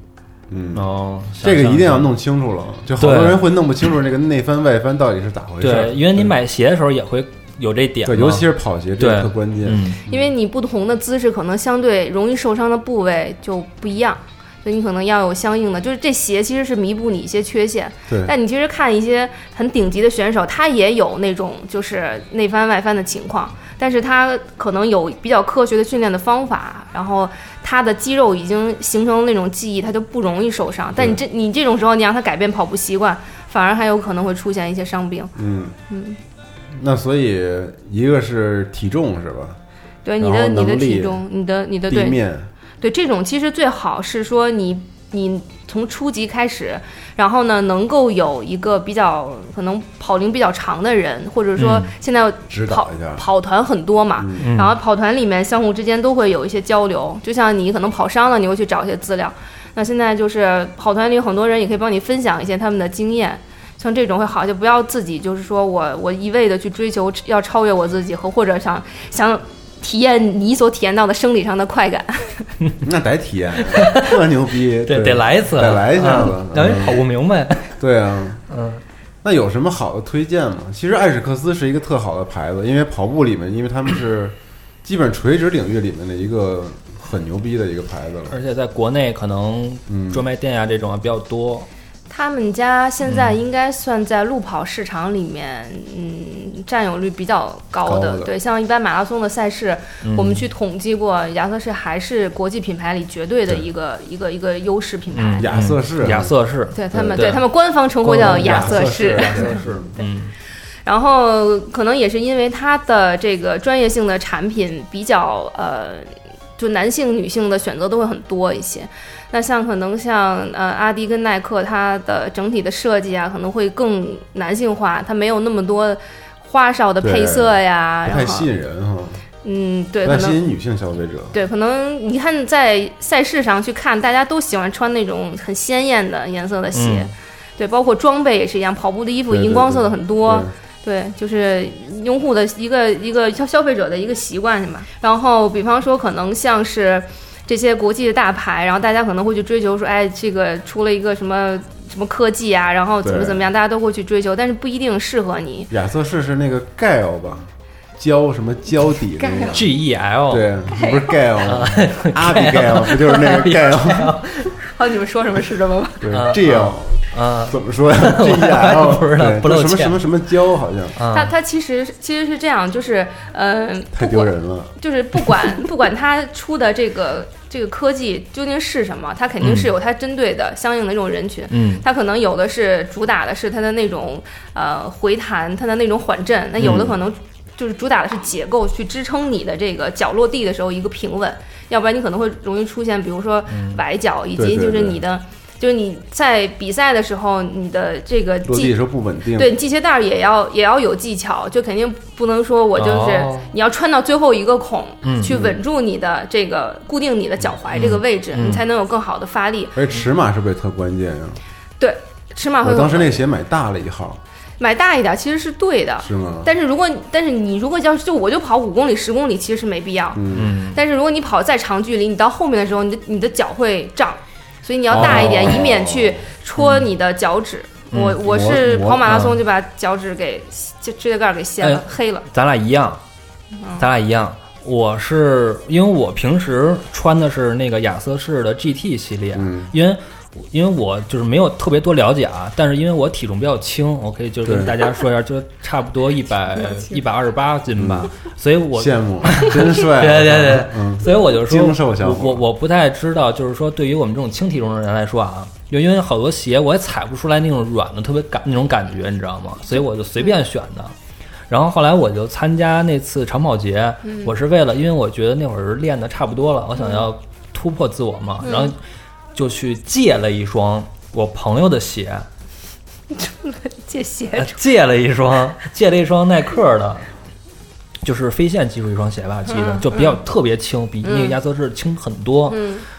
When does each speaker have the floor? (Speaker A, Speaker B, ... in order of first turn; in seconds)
Speaker A: 0.5-0.9, 1.4-6.3, 8.0-10.3, 35.3-35.8, 36.7-39.6, 40.2-41.2, 41.9-42.5, 52.5-53.2, 54.2-54.5, 72.8-77.0, 77.8-78.4, 79.2-88.4, 89.9-90.2, 97.8-98.3, 105.4-106.3, 106.9-107.2, 108.2-109.9, 127.0-129.2, 130.0-131.3, 139.3-140.5, 153.0-153.4, 155.7-159.7, 160.3-164.2, 166.0-171.0, 173.9-174.7, 194.4-195.0, 198.4-199.5, 205.2-205.6, 209.7-211.4, 212.6-214.2, 216.0-216.5, 220.1-220.5, 224.9-226.2, 228.2-229.2, 239.3-239.7, 244.4-244.8, 247.8-248.1, 248.7-252.4
Speaker B: 0.7-2.1, 3.0-3.5, 5.6-8.5, 9.0-10.0, 51.6-51.9, 54.4-54.8, 73.7-74.2, 74.8-77.8, 78.5-78.8, 88.3-91.7, 93.1-93.3, 100.0-100.4, 105.1-107.5, 108.0-110.3, 136.7-137.1, 159.5-160.5, 161.4-164.6, 166.1-170.0, 170.9-171.3, 179.4-179.7, 181.5-181.8, 186.6-186.9, 193.5-193.8, 202.8-203.5, 205.0-205.3, 207.7-208.6, 220.3-220.8, 224.9-225.6, 226.6-226.9, 227.9-228.2, 229.0-229.4, 231.6-233.0, 233.8-260.9, 261.5-268.8, 269.3-272.3, 274.4-277.1, 278.0-282.7
Speaker C: 10.1-35.3, 35.9-36.2, 40.0-42.2, 42.8-72.5, 92.1-105.5, 106.7-110.0, 110.8-128.5, 129.4-130.4, 131.3-155.7, 159.2-159.6, 160.7-161.1, 164.7-166.1, 171.1-198.8, 199.3-209.8, 211.8-213.2, 214.6-220.2, 220.7-232.2, 264.0-264.3, 266.8-267.0, 268.4-268.7, 273.1-274.6, 279.5-280.2, 281.0-281.4, 282.5-282.8